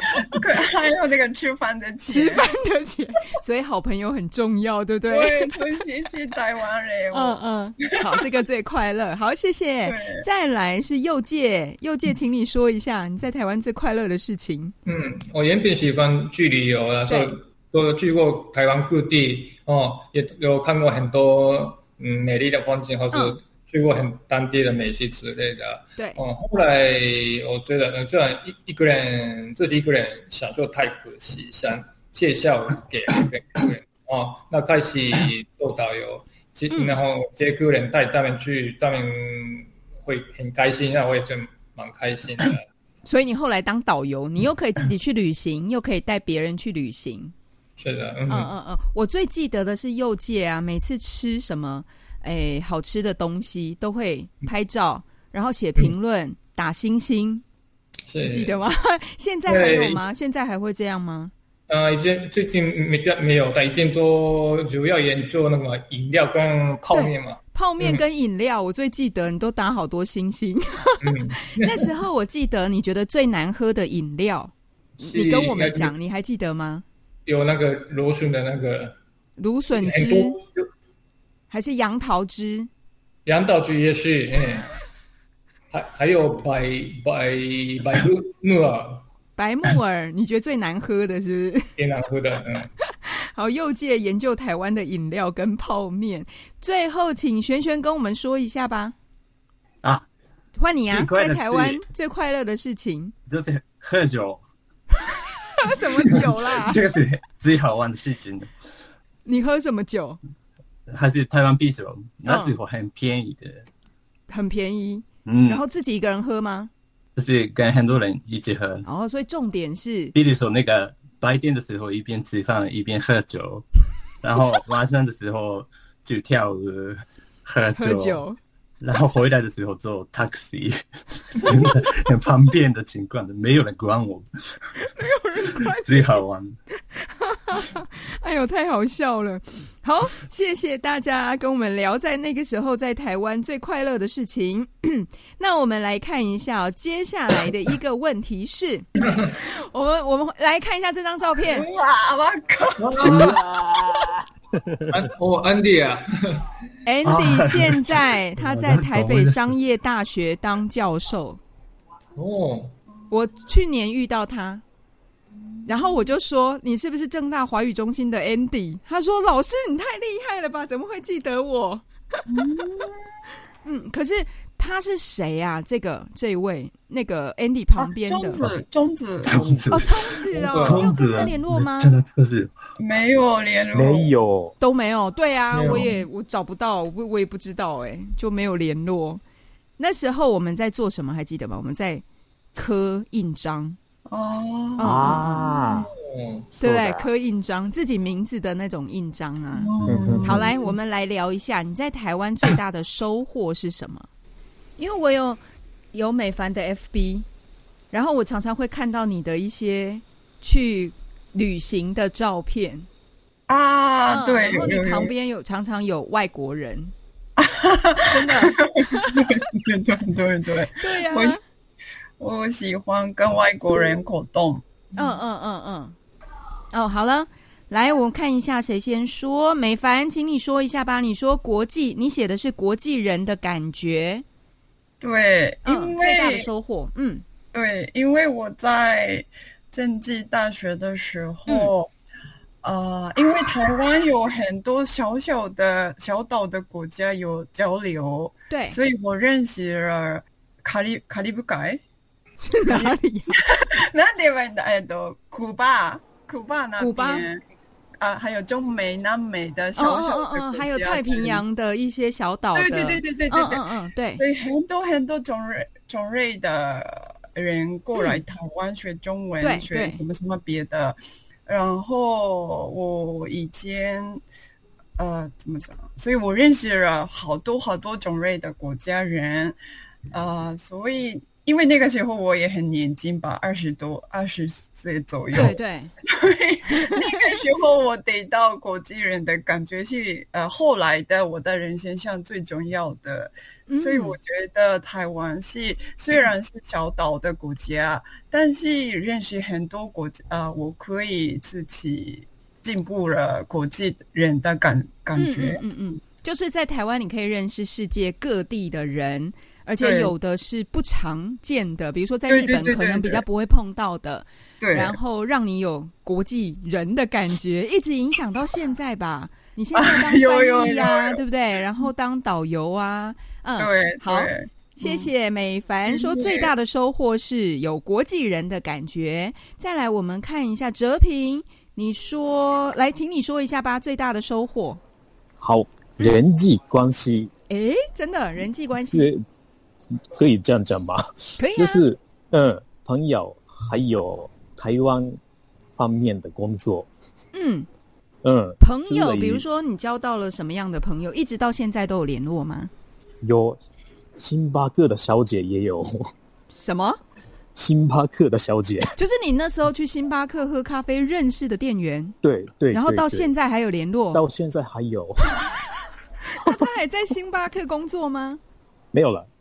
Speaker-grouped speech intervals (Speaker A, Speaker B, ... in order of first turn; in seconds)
Speaker A: 0.1-2.5, 5.1-8.2, 9.8-10.2, 151.5-153.3, 172.3-173.0, 177.8-179.5, 182.8-184.1, 194.1-195.8, 199.5-200.7, 213.5-215.1, 217.4-221.4, 222.2-225.0, 235.0-236.5, 237.5-241.9, 242.6-251.8, 252.6-257.4, 258.0-261.4, 262.5-274.2, 275.0-279.6, 280.1-285.6, 286.1-305.6, 309.8-310.1, 312.3-313.2, 314.6-315.0, 319.7-321.2, 323.6-325.1, 325.9-326.5
Speaker B: 2.1-5.6, 7.1-14.7, 23.1-23.4, 26.0-26.2, 36.7-37.0, 43.1-47.3, 48.3-57.4, 58.2-61.3, 66.9-76.8, 79.4-80.4, 81.5-82.7, 89.4-91.7, 93.0-98.9, 100.5-103.1, 105.0-106.8, 109.2-110.2, 112.2-112.5, 114.3-116.7, 118.8-120.1, 127.8-128.4, 134.8-136.2, 136.9-151.7, 156.8-161.4, 163.1-164.6, 165.7-171.8, 173.6-178.4, 179.7-181.9, 184.6-189.2, 189.8-192.0, 192.5-193.8, 194.8-195.3, 196.6-199.7, 200.2-204.1, 204.8-205.4, 205.9-207.2, 207.9-212.9, 214.1-216.9, 218.1-219.3, 220.8-221.4, 224.9-225.9, 226.7-234.2, 235.6-237.2, 241.5-241.7, 248.5-248.8, 252.4-253.4, 256.8-257.2, 259.8-264.2, 267.9-268.2, 269.4-270.0, 285.3-285.9, 286.7-287.2, 293.7-294.2, 305.1-334.8, 337.5-339.1, 341.4-341.8, 347.3-347.7, 348.6-352.7, 356.5-357.0, 359.0-362.1, 362.7-364.2, 366.2-368.4
Speaker C: 14.8-42.6, 47.8-48.5, 58.1-58.6, 59.5-60.0, 61.7-68.0, 71.0-71.9, 75.0-75.9, 77.2-78.9, 79.7-80.6, 83.2-84.7, 85.7-89.0, 91.8-92.7, 149.0-149.3, 152.8-153.4, 154.9-156.4, 162.2-162.7, 180.5-180.9, 185.5-185.9, 196.1-196.5
Speaker D: 100.9-101.8, 103.3-104.4, 106.0-108.5, 110.9-113.7, 115.2-115.6, 117.2-118.8, 120.1-123.6, 124.2-128.2, 128.8-134.7, 135.6-136.6, 157.0-159.5, 179.2-182.5
Speaker E: 153.0-155.1, 179.4-179.7, 183.7-184.5, 194.8-195.9, 196.6-197.1, 199.8-200.4, 335.4-337.3, 338.9-339.2, 340.1-345.2, 345.8-346.9, 348.2-349.4, 353.2-353.6, 354.1-356.1, 357.5-358.9, 362.2-363.3, 364.1-365.4, 368.9-369.3